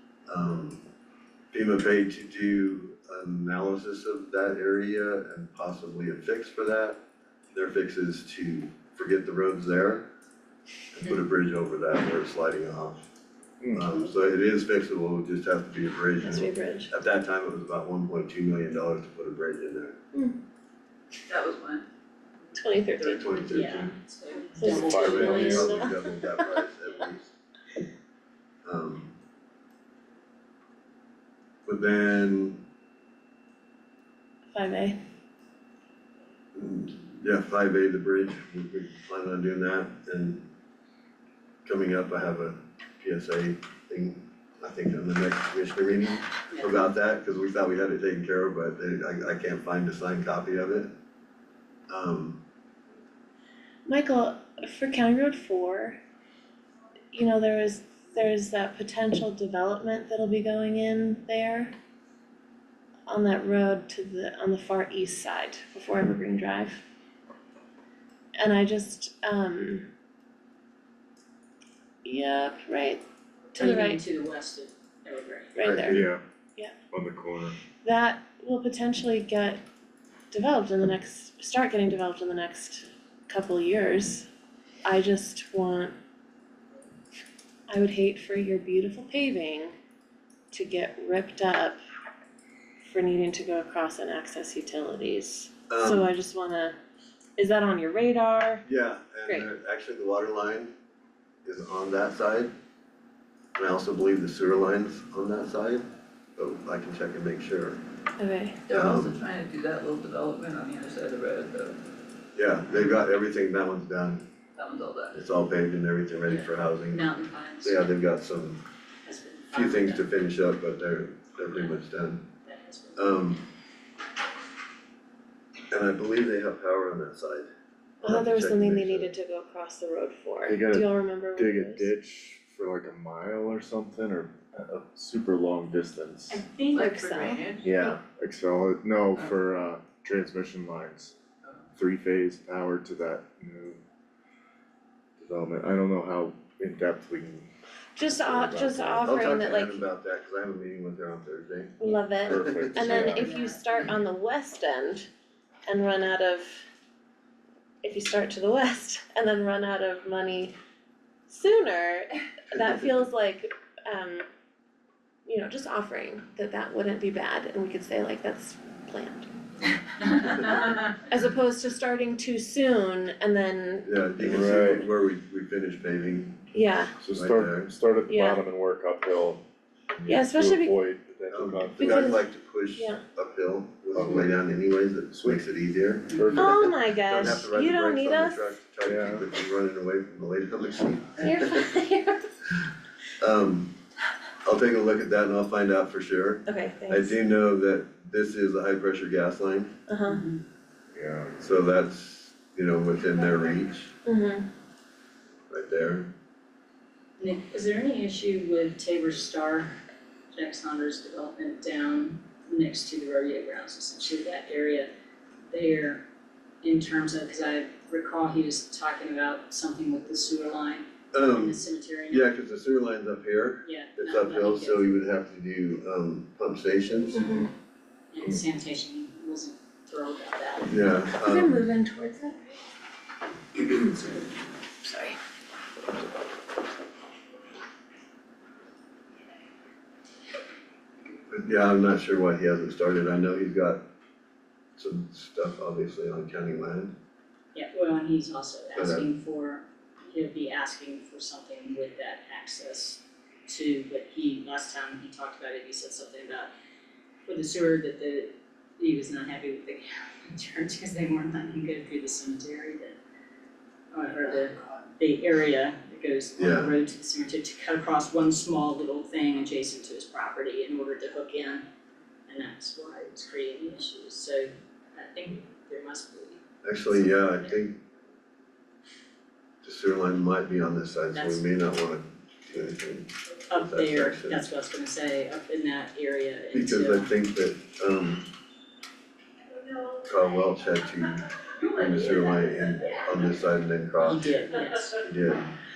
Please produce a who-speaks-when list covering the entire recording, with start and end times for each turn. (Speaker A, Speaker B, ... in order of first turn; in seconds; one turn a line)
Speaker A: 0.3-0.8
Speaker A: 1.5-7.0
Speaker A: 7.5-10.1
Speaker A: 10.9-13.1
Speaker B: 13.6-13.9
Speaker A: 13.8-20.0
Speaker C: 16.2-16.9
Speaker D: 21.3-21.9
Speaker C: 22.6-23.3
Speaker A: 23.1-23.9
Speaker E: 23.5-25.7
Speaker C: 24.6-26.2
Speaker A: 24.6-27.4
Speaker B: 24.8-25.8
Speaker A: 28.6-29.1
Speaker A: 31.6-32.6
Speaker C: 34.5-35.0
Speaker A: 36.5-40.5
Speaker A: 41.6-50.9
Speaker A: 51.9-52.4
Speaker C: 53.9-56.0
Speaker C: 57.1-61.7
Speaker C: 63.1-66.8
Speaker C: 68.4-69.8
Speaker C: 72.0-73.0
Speaker E: 73.5-75.6
Speaker C: 73.6-74.0
Speaker C: 75.5-76.0
Speaker A: 75.7-76.0
Speaker B: 75.8-76.2
Speaker B: 76.9-77.6
Speaker C: 77.8-79.6
Speaker C: 80.3-84.3
Speaker C: 84.8-85.9
Speaker C: 87.7-89.7
Speaker C: 90.5-91.8
Speaker C: 92.8-96.8
Speaker A: 95.7-96.1
Speaker C: 97.4-98.6
Speaker A: 98.7-100.7
Speaker A: 101.5-102.5
Speaker A: 103.6-105.8
Speaker A: 106.4-107.8
Speaker C: 108.2-108.6
Speaker D: 108.7-111.8
Speaker A: 108.7-109.2
Speaker A: 112.3-114.2
Speaker D: 114.6-115.2
Speaker A: 115.1-118.6
Speaker E: 116.3-117.9
Speaker E: 119.0-120.0
Speaker A: 119.5-122.3
Speaker E: 122.5-123.3
Speaker A: 123.0-123.4
Speaker A: 125.7-127.5
Speaker A: 128.0-129.1
Speaker C: 128.0-131.9
Speaker B: 130.5-136.4
Speaker E: 136.3-136.8
Speaker D: 136.6-137.8
Speaker C: 136.7-137.4
Speaker B: 137.6-141.2
Speaker B: 141.8-143.8
Speaker B: 145.2-147.5
Speaker C: 148.0-149.8
Speaker B: 148.1-149.0
Speaker A: 149.0-152.7
Speaker C: 151.8-155.1
Speaker B: 152.2-153.3
Speaker E: 152.8-153.7
Speaker C: 155.7-156.7
Speaker C: 157.8-160.5
Speaker C: 161.3-164.3
Speaker C: 165.3-169.3
Speaker E: 170.1-170.9
Speaker C: 171.0-173.9
Speaker A: 173.8-176.4
Speaker B: 174.2-174.9
Speaker C: 176.5-176.9
Speaker B: 177.0-179.4
Speaker A: 177.1-177.7
Speaker C: 178.1-178.4
Speaker B: 180.0-182.2
Speaker C: 180.1-180.8
Speaker A: 181.3-186.4
Speaker C: 181.8-183.0
Speaker B: 183.9-184.4
Speaker B: 185.1-185.4
Speaker B: 186.1-186.8
Speaker C: 186.3-188.4
Speaker A: 187.1-191.5
Speaker B: 188.8-189.2
Speaker C: 191.2-192.3
Speaker A: 193.2-193.7
Speaker A: 194.4-199.8
Speaker C: 196.5-197.2
Speaker C: 199.9-200.2
Speaker E: 200.1-200.4
Speaker B: 200.9-201.4
Speaker A: 201.4-203.9
Speaker C: 204.1-204.5
Speaker A: 205.5-206.1
Speaker E: 207.2-209.8
Speaker E: 210.3-214.9
Speaker E: 215.5-216.1
Speaker E: 216.6-222.3
Speaker A: 221.1-227.4
Speaker E: 223.6-225.0
Speaker C: 227.2-227.5
Speaker E: 228.1-230.9
Speaker A: 230.7-231.6
Speaker C: 231.2-232.4
Speaker C: 233.6-234.2
Speaker C: 234.8-235.2
Speaker A: 241.3-243.8
Speaker A: 244.8-246.9
Speaker E: 247.5-256.5
Speaker A: 248.8-249.1
Speaker E: 257.3-263.0
Speaker E: 263.9-271.6
Speaker A: 266.4-266.7
Speaker E: 272.3-277.6
Speaker A: 276.6-277.8
Speaker A: 279.6-284.4
Speaker E: 281.1-281.4
Speaker E: 283.5-287.1
Speaker A: 286.5-288.3
Speaker A: 290.0-294.3
Speaker E: 294.0-295.5
Speaker A: 295.0-295.4